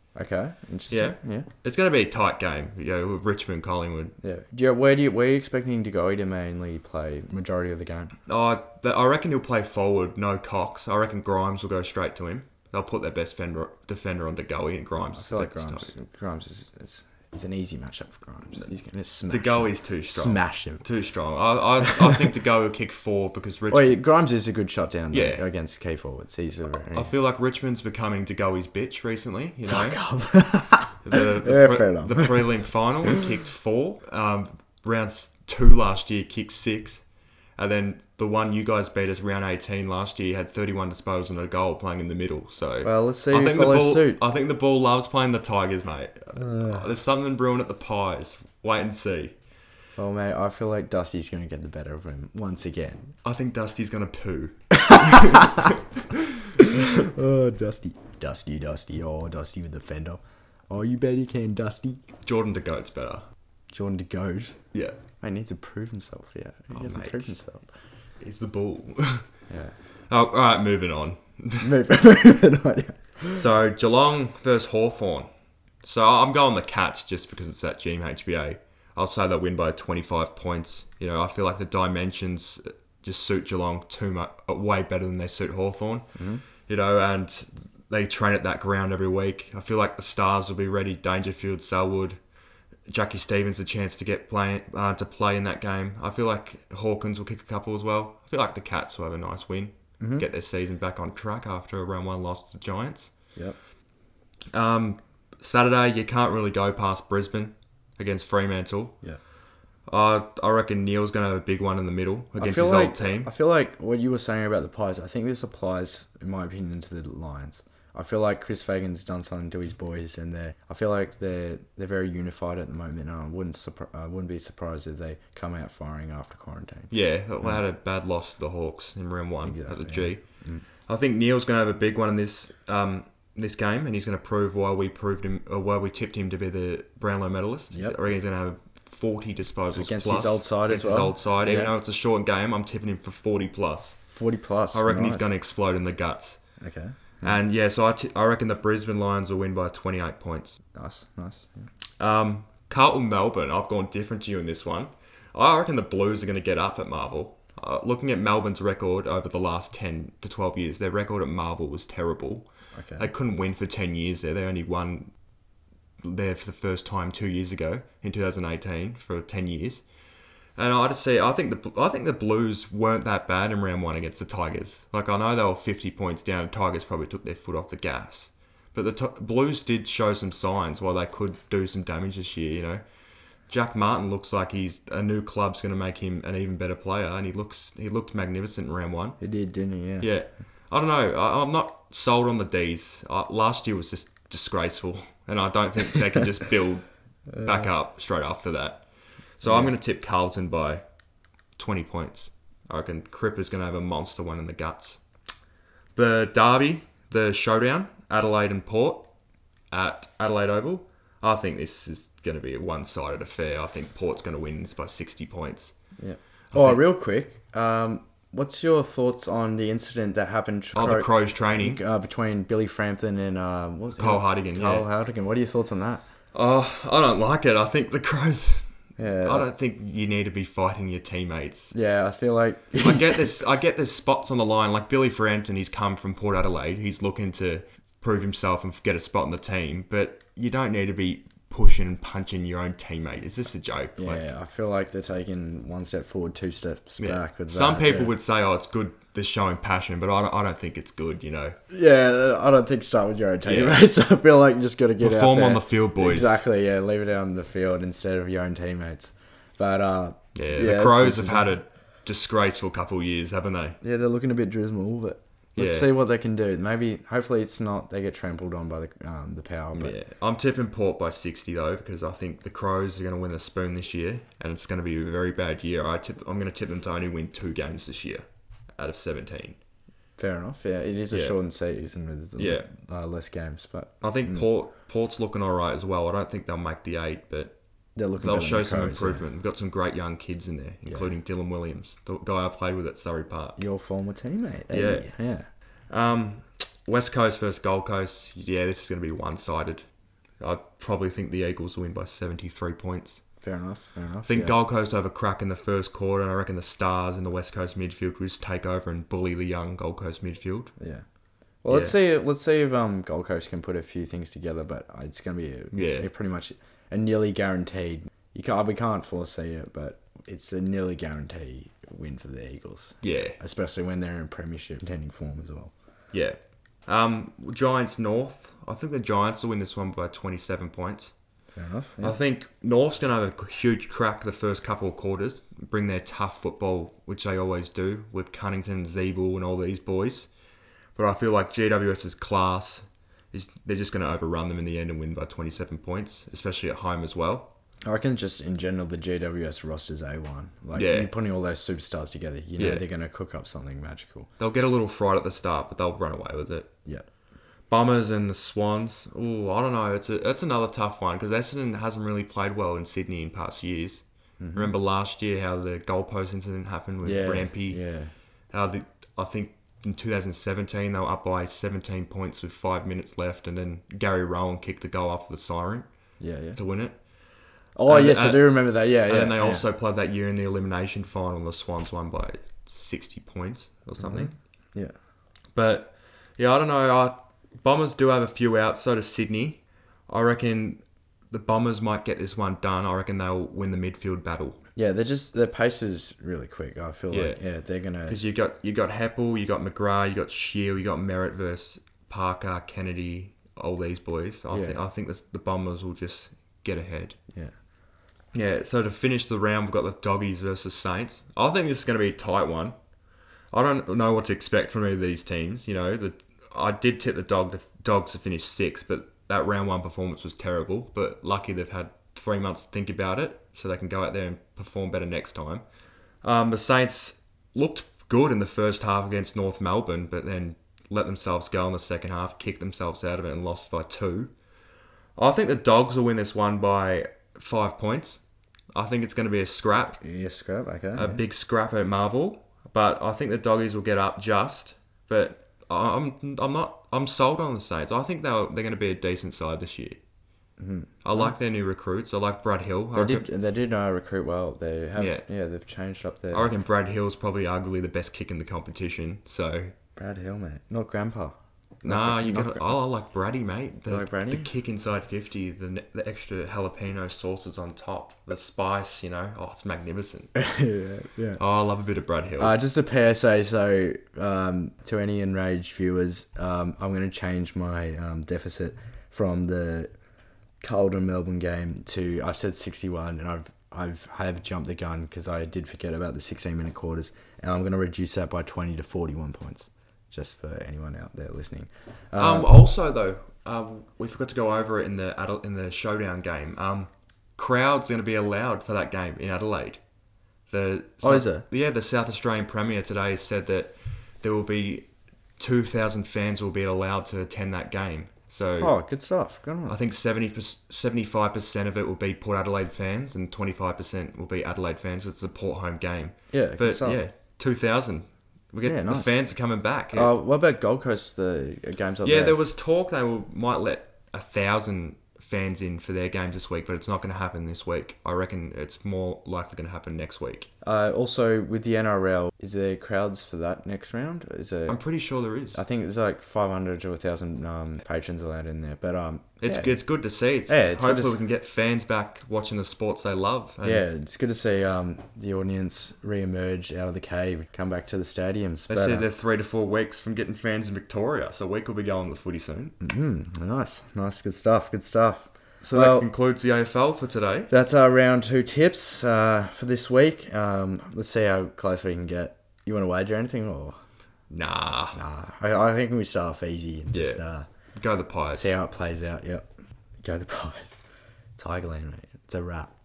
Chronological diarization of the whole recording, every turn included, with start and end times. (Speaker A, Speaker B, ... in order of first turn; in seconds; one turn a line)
Speaker A: 0.1-1.5
Speaker B: 0.9-4.2
Speaker A: 4.2-8.1
Speaker B: 8.3-15.9
Speaker A: 15.0-20.8
Speaker B: 19.3-24.0
Speaker A: 23.7-27.1
Speaker B: 25.1-25.4
Speaker B: 26.9-30.0
Speaker A: 29.7-32.4
Speaker B: 31.0-49.4
Speaker A: 42.8-44.2
Speaker A: 46.4-46.9
Speaker A: 50.0-53.1
Speaker B: 53.2-55.7
Speaker A: 54.8-55.7
Speaker A: 56.8-62.0
Speaker B: 62.2-63.2
Speaker A: 63.7-67.7
Speaker B: 66.7-67.3
Speaker B: 68.2-69.4
Speaker A: 69.5-69.8
Speaker B: 70.1-71.7
Speaker A: 71.6-73.4
Speaker B: 73.3-75.3
Speaker B: 75.8-92.2
Speaker A: 86.1-86.4
Speaker B: 92.9-103.3
Speaker A: 100.0-100.3
Speaker B: 104.5-109.0
Speaker B: 109.9-113.3
Speaker A: 112.4-126.9
Speaker B: 126.9-144.0
Speaker A: 129.4-130.6
Speaker A: 139.8-141.7
Speaker A: 144.1-145.3
Speaker B: 144.7-146.4
Speaker A: 146.6-147.4
Speaker B: 147.2-150.6
Speaker A: 150.7-151.7
Speaker B: 152.0-165.2
Speaker A: 162.7-163.1
Speaker B: 166.0-169.9
Speaker B: 170.5-182.8
Speaker B: 183.4-189.2
Speaker A: 189.2-190.1
Speaker B: 190.0-200.8
Speaker A: 197.3-197.7
Speaker A: 199.4-199.7
Speaker B: 201.6-205.0
Speaker B: 205.9-209.1
Speaker B: 209.7-215.8
Speaker A: 216.0-226.0
Speaker B: 216.5-216.8
Speaker B: 220.7-221.8
Speaker B: 224.0-224.9
Speaker B: 226.3-231.7
Speaker A: 229.0-229.5
Speaker A: 231.7-233.3
Speaker B: 232.8-244.3
Speaker A: 244.0-248.1
Speaker B: 247.0-251.6
Speaker A: 251.7-261.5
Speaker B: 253.4-253.8
Speaker B: 255.0-256.4
Speaker B: 260.3-263.8
Speaker A: 263.8-270.0
Speaker B: 265.6-265.9
Speaker B: 269.7-279.6
Speaker A: 280.2-284.4
Speaker B: 281.1-281.4
Speaker B: 282.4-282.7
Speaker B: 284.0-287.6
Speaker A: 287.9-289.2
Speaker B: 288.2-293.6
Speaker A: 293.6-295.5
Speaker B: 294.7-295.1
Speaker B: 295.9-299.9
Speaker B: 300.4-303.2
Speaker A: 303.4-304.5
Speaker B: 304.2-310.7
Speaker A: 310.8-311.1
Speaker A: 311.6-325.7
Speaker B: 311.7-311.9
Speaker B: 315.7-316.1
Speaker B: 323.0-323.4
Speaker B: 326.1-331.1
Speaker A: 331.5-332.2
Speaker B: 332.0-340.3
Speaker B: 340.9-347.5
Speaker A: 347.8-354.3
Speaker B: 350.7-351.1
Speaker B: 352.6-352.8
Speaker B: 354.4-356.7
Speaker B: 357.7-367.8
Speaker A: 364.4-364.7
Speaker A: 367.0-368.1
Speaker B: 368.5-377.1
Speaker A: 376.2-376.6
Speaker A: 377.7-379.6
Speaker B: 377.9-384.4
Speaker A: 384.0-384.9
Speaker B: 385.5-394.6
Speaker A: 394.8-398.2
Speaker B: 397.1-397.4
Speaker B: 398.1-407.2
Speaker A: 404.5-404.8
Speaker B: 408.3-412.8
Speaker B: 413.5-425.6
Speaker B: 426.2-434.3
Speaker B: 435.1-440.0
Speaker A: 440.0-441.2
Speaker B: 440.9-450.0
Speaker A: 450.6-451.3
Speaker B: 451.0-453.2
Speaker A: 452.9-456.5
Speaker B: 454.9-455.2
Speaker B: 456.3-459.7
Speaker A: 459.9-462.7
Speaker B: 461.8-470.3
Speaker A: 463.9-464.5
Speaker A: 470.4-471.4
Speaker B: 471.4-472.6
Speaker A: 472.4-479.9
Speaker A: 480.6-492.5
Speaker B: 492.1-499.8
Speaker B: 500.5-508.7
Speaker A: 501.0-501.4
Speaker A: 508.6-509.8
Speaker B: 509.7-520.1
Speaker A: 516.3-517.0
Speaker A: 518.6-519.2
Speaker A: 519.9-522.4
Speaker B: 522.0-530.5
Speaker A: 530.6-534.8
Speaker B: 534.7-535.6
Speaker A: 535.5-539.8
Speaker B: 539.4-543.8
Speaker A: 540.5-541.2
Speaker A: 543.6-549.0
Speaker B: 548.7-552.7
Speaker A: 552.8-556.1
Speaker B: 555.6-557.5
Speaker A: 557.5-563.8
Speaker B: 564.3-565.0
Speaker A: 564.9-567.5
Speaker B: 566.9-567.2
Speaker B: 567.7-568.5
Speaker A: 568.3-569.5
Speaker A: 570.0-570.8
Speaker A: 571.4-572.7